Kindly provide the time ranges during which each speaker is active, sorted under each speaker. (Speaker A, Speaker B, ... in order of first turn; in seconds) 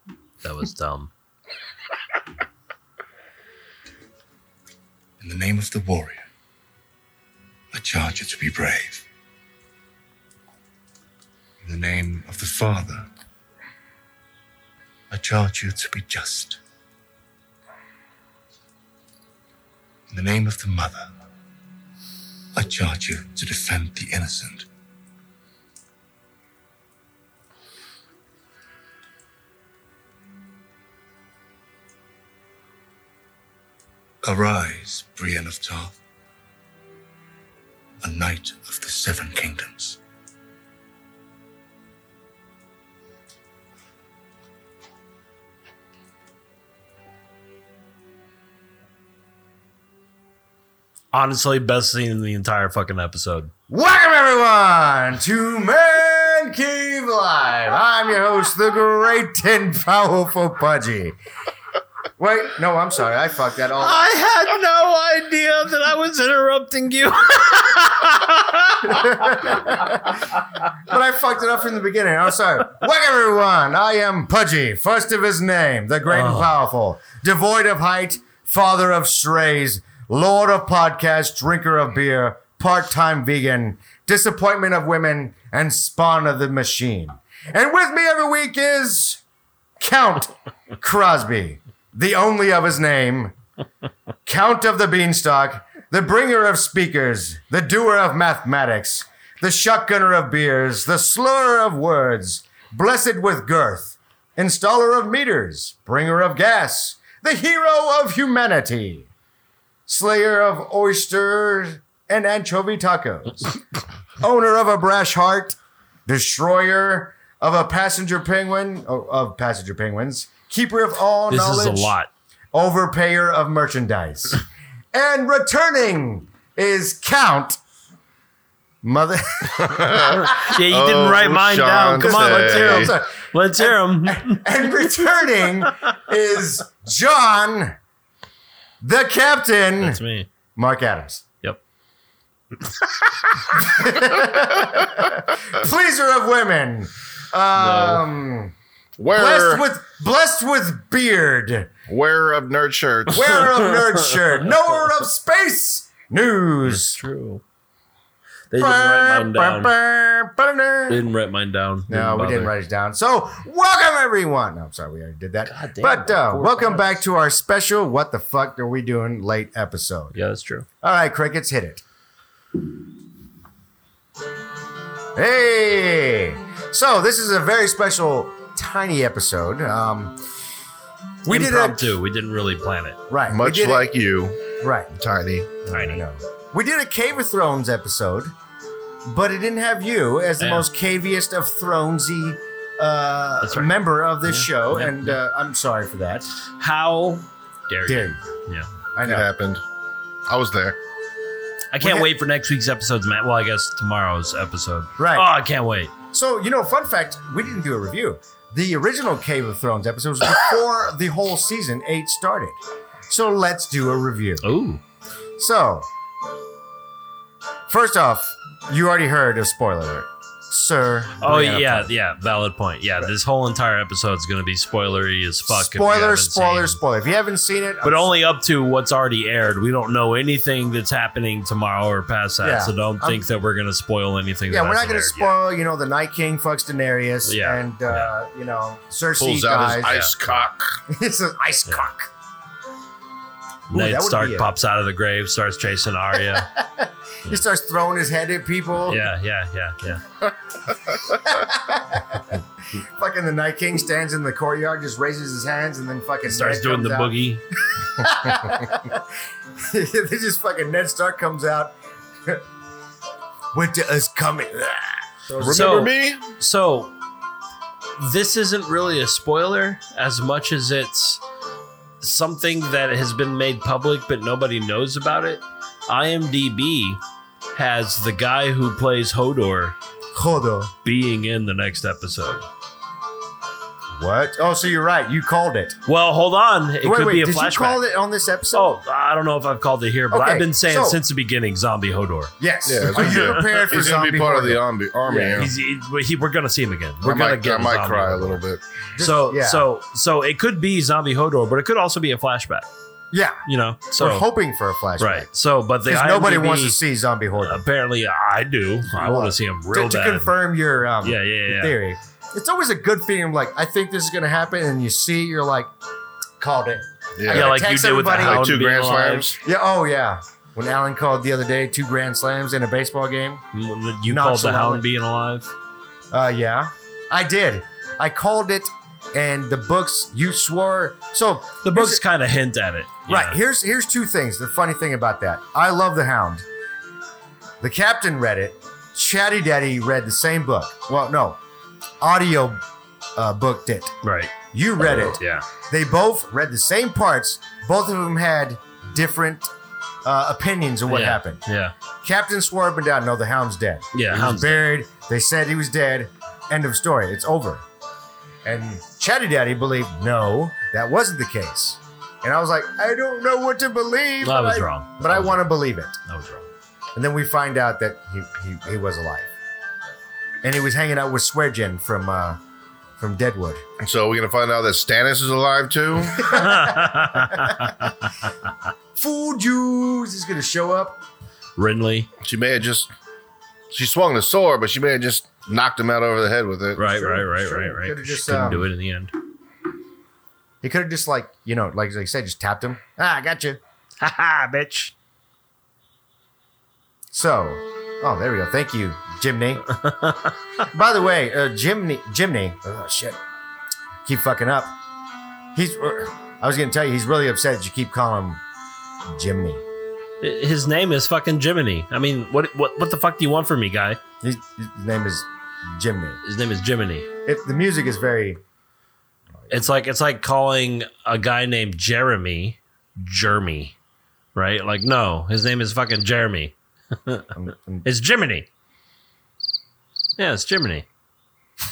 Speaker A: 0.4-1.1, 51.1-53.5, 63.8-69.6, 76.1-76.5, 121.3-122.1, 130.2-134.8, 139.8-140.3, 142.6-143.3, 147.5-148.0, 153.4-154.2, 156.6-157.4, 158.5-159.7, 160.9-162.5, 165.4-166.9, 170.1-170.7, 181.3-183.0, 185.7-186.0, 190.4-190.7, 193.4-193.7, 194.2-195.2, 196.4-198.7, 201.7-205.9, 214.4-214.8, 221.2-226.8, 227.8-235.3, 237.2-238.1, 239.8-240.1, 243.7-246.5, 248.9-250.0, 256.3-257.4, 265.5-266.9, 268.0-271.2, 272.0-277.0, 277.5-279.8, 280.8-282.4, 285.9-287.8, 288.5-292.3, 292.9-293.6, 295.1-298.4, 299.0-302.7, 303.4-304.3, 305.0-306.8, 307.4-310.3, 311.0-311.8, 317.3-319.3, 323.5-325.5, 331.6-333.4, 344.0-344.3, 344.8-345.4, 350.9-351.7, 353.9-354.7, 364.2-365.5, 366.0-366.5, 376.2-378.1, 381.6-382.1, 386.8-389.1, 394.0-394.9, 399.8-400.3, 410.2-414.0, 416.2-417.1, 419.5-423.7, 424.3-427.3, 427.8-428.5, 430.2-430.9
Speaker B: 5.2-6.2, 7.7-9.0, 11.6-13.1, 15.1-16.6, 20.1-21.1, 22.5-24.7, 34.2-35.9, 38.0-40.0
Speaker C: 53.7-61.1, 62.2-64.1, 68.8-89.2, 89.8-93.3, 94.2-109.1, 109.9-113.6, 114.2-121.9, 122.5-127.6, 128.8-130.4, 132.0-137.8, 138.8-140.0, 140.6-141.2, 143.5-148.5, 149.1-151.7, 153.1-157.0, 158.5-161.0, 161.9-170.1, 170.8-171.8, 175.1-180.2, 181.2-181.9, 183.1-183.9, 184.6-184.9, 185.6-188.3, 189.0-196.2, 197.8-198.2, 198.9-199.3, 201.8-202.1, 205.0-205.3, 206.1-212.6, 213.1-214.4, 215.4-215.9, 217.7-221.9, 225.5-228.1, 232.4-233.2, 234.5-240.0, 240.9-242.1, 243.7-244.5, 246.3-249.1, 251.0-257.1, 257.7-262.4, 263.5-265.8, 280.1-280.7, 284.0-285.8, 286.8-288.8, 290.1-291.0, 292.4-294.6, 298.9-299.6, 303.1-305.3, 305.9-307.6, 309.0-315.7, 316.4-318.5, 319.4-323.4, 324.1-324.8, 326.1-332.0, 333.1-336.4, 337.6-341.4, 342.0-342.6, 343.1-344.0, 344.5-349.5, 350.0-351.4, 352.0-357.6, 358.4-365.9, 366.9-369.3, 370.4-372.4, 373.0-373.6, 376.1-377.7, 378.9-381.0, 386.9-388.6, 390.6-393.6, 397.1-399.6, 400.6-403.2, 404.0-404.7, 405.5-408.4, 409.1-409.6, 414.2-416.2, 417.2-418.4, 427.3-427.9
Speaker D: 129.5-132.9, 149.0-149.6, 151.9-153.3, 183.3-185.5, 199.0-199.6, 200.3-200.8, 239.2-240.8, 265.4-266.3, 292.6-295.5, 297.0-298.6, 317.2-317.6, 318.1-319.4, 373.8-376.3, 382.2-382.9, 383.7-386.9